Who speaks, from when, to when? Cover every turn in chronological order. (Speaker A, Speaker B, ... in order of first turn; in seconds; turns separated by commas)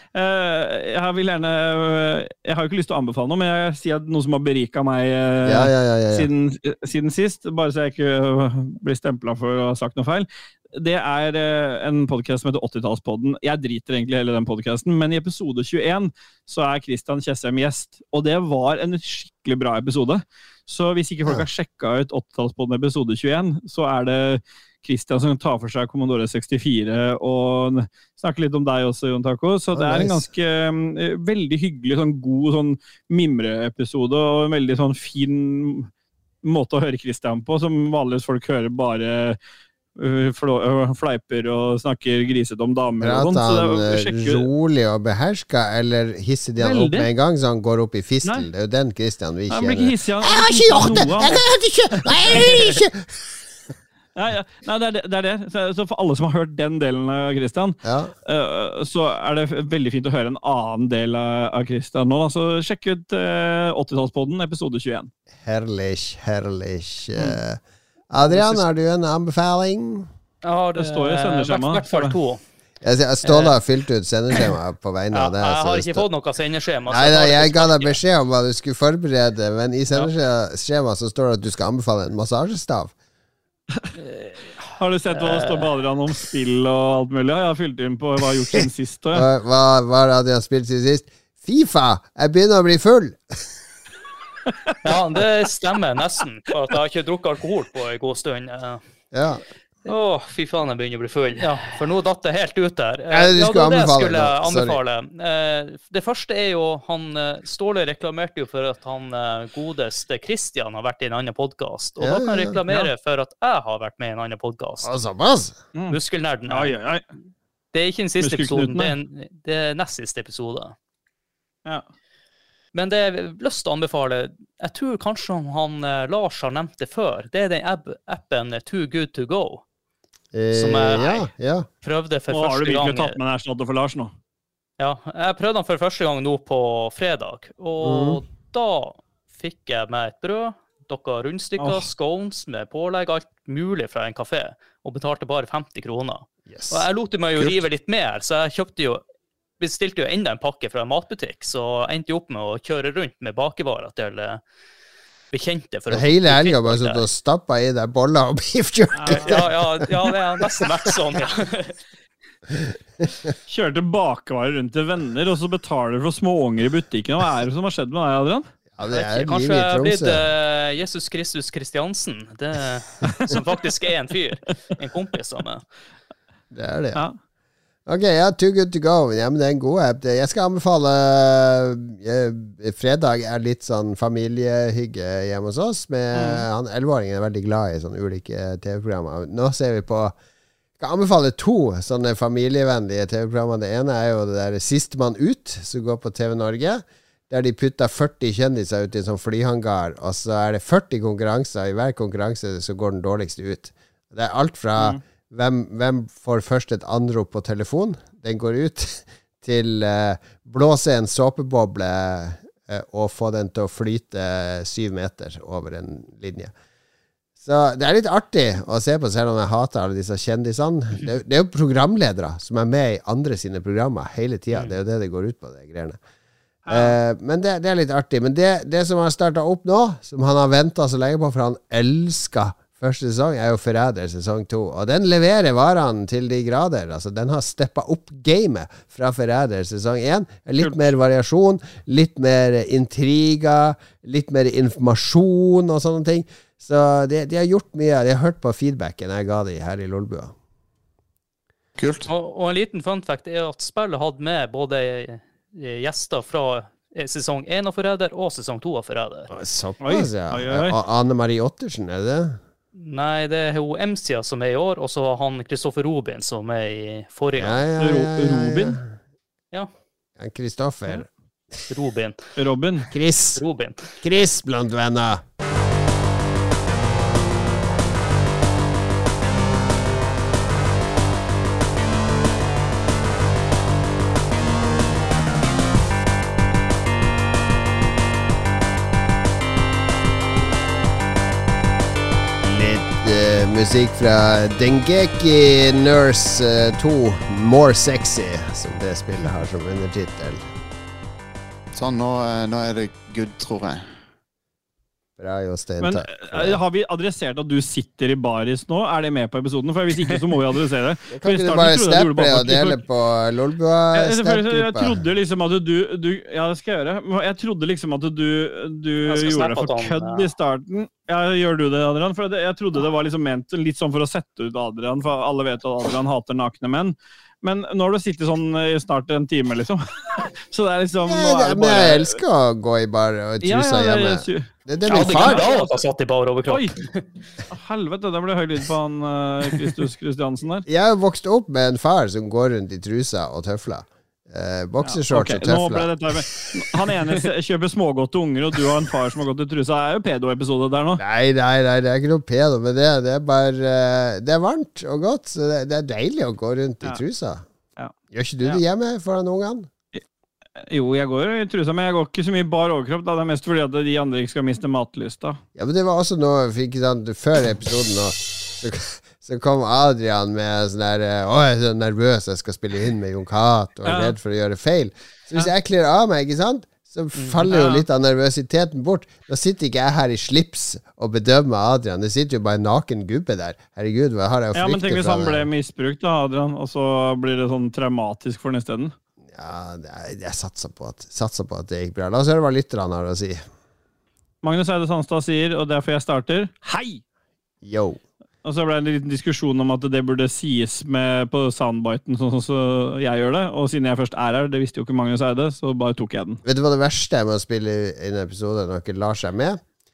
Speaker A: 0.1-35.9, Speaker B: 5.4-6.3, Speaker B: 29.7-30.2, Speaker A: 36.4-39.4, Speaker A: 40.0-44.5, Speaker B: 43.0-53.1, Speaker A: 46.6-47.1, Speaker A: 49.5-51.4, Speaker A: 52.0-52.7, Speaker A: 54.1-65.1, Speaker B: 57.8-58.1, Speaker B: 65.4-67.6, Speaker B: 68.1-70.1, Speaker A: 68.2-68.6, Speaker C: 70.4-72.4, Speaker A: 70.8-72.1, Speaker B: 72.8-76.0, Speaker C: 73.2-73.5, Speaker C: 75.1-78.0, Speaker B: 76.9-82.9, Speaker A: 84.7-89.2, Speaker C: 85.1-85.7, Speaker B: 89.1-93.5, Speaker C: 94.8-98.8, Speaker B: 99.1-99.4, Speaker C: 99.8-114.9, Speaker B: 103.1-104.8, Speaker B: 112.0-112.6, Speaker B: 114.8-115.5, Speaker A: 115.7-117.0, Speaker C: 115.9-116.7, Speaker C: 117.7-120.8, Speaker A: 118.2-118.9, Speaker C: 122.7-129.6, Speaker B: 130.3-131.7, Speaker C: 130.5-131.3, Speaker C: 131.8-133.2, Speaker A: 132.3-134.1, Speaker C: 134.8-149.0, Speaker B: 137.8-138.2, Speaker A: 141.6-141.9, Speaker B: 146.5-146.8, Speaker C: 149.6-154.4, Speaker C: 155.3-157.0, Speaker B: 155.9-159.9, Speaker A: 158.9-159.4, Speaker C: 159.1-161.8, Speaker A: 163.5-168.4, Speaker B: 168.8-170.2, Speaker C: 168.9-175.6, Speaker B: 176.5-177.0, Speaker B: 177.8-190.1, Speaker A: 186.1-186.4, Speaker B: 190.8-216.5, Speaker B: 217.4-226.0, Speaker A: 226.7-226.9, Speaker B: 226.7-250.3, Speaker A: 240.6-240.9, Speaker D: 251.8-252.1, Speaker C: 252.1-259.3, Speaker B: 259.3-262.4, Speaker A: 259.8-260.7, Speaker C: 262.7-267.6, Speaker B: 267.4-268.9, Speaker A: 267.8-268.8, Speaker B: 270.2-271.1, Speaker C: 271.7-272.3, Speaker A: 272.4-272.9, Speaker B: 272.9-273.4, Speaker C: 273.4-273.9, Speaker B: 274.0-275.2, Speaker B: 292.4-300.4, Speaker D: 301.7-303.9, Speaker B: 305.2-306.6, Speaker A: 305.8-312.8, Speaker B: 311.1-315.0, Speaker A: 313.9-332.2, Speaker C: 319.0-320.3, Speaker B: 331.1-335.4, Speaker A: 333.4-335.7, Speaker C: 334.9-337.0, Speaker A: 336.4-336.7, Speaker A: 337.5-340.6, Speaker B: 340.6-346.5, Speaker A: 344.8-351.0, Speaker B: 351.0-357.4, Speaker B: 358.1-359.7, Speaker A: 360.7-365.4, Speaker B: 365.6-385.5, Speaker A: 373.9-374.1, Speaker A: 377.2-377.9, Speaker A: 384.5-388.9, Speaker B: 389.3-393.4, Speaker A: 394.4-397.0, Speaker B: 397.6-398.0, Speaker A: 398.4-406.4, Speaker B: 406.4-409.6